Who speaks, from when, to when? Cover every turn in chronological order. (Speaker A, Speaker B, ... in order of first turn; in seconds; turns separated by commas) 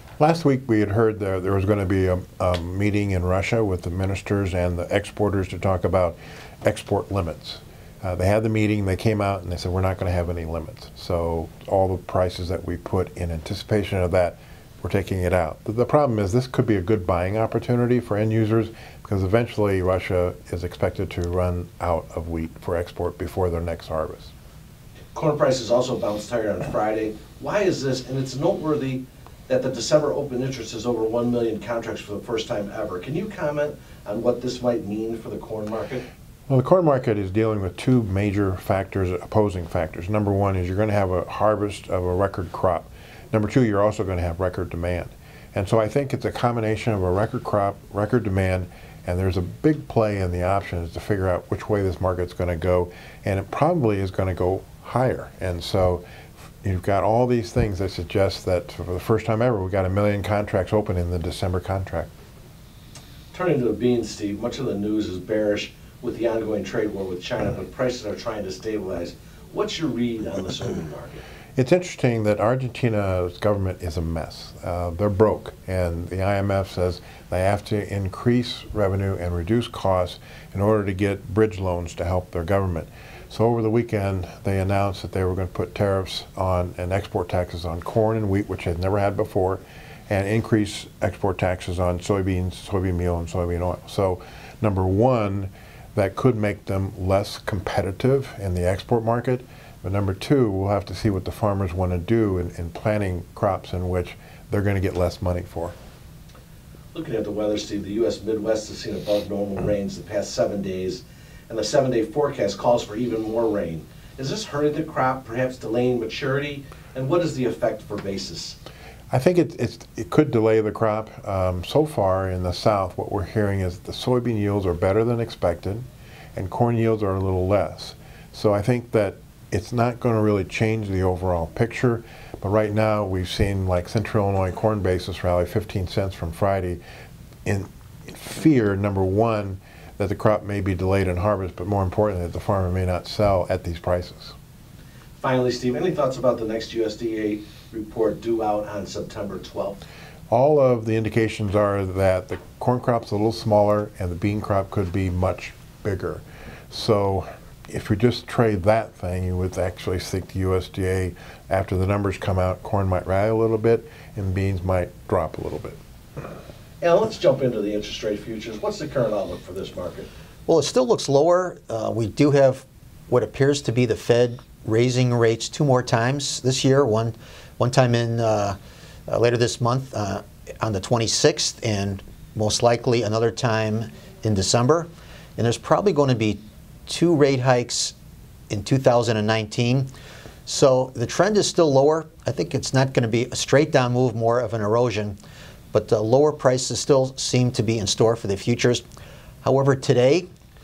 Speaker A: 0.2-24.3, Speaker B: 25.1-36.0, Speaker A: 36.5-56.0, Speaker A: 56.6-62.1, Speaker B: 63.3-71.2, Speaker A: 71.6-105.7, Speaker B: 106.9-118.6, Speaker A: 119.1-136.8, Speaker A: 137.4-144.3, Speaker B: 145.2-149.8, Speaker A: 150.3-165.8, Speaker B: 166.8-170.1, Speaker C: 170.5-187.9, Speaker C: 188.5-189.9, Speaker C: 190.4-195.2, Speaker C: 195.7-198.8, Speaker C: 199.4-200.3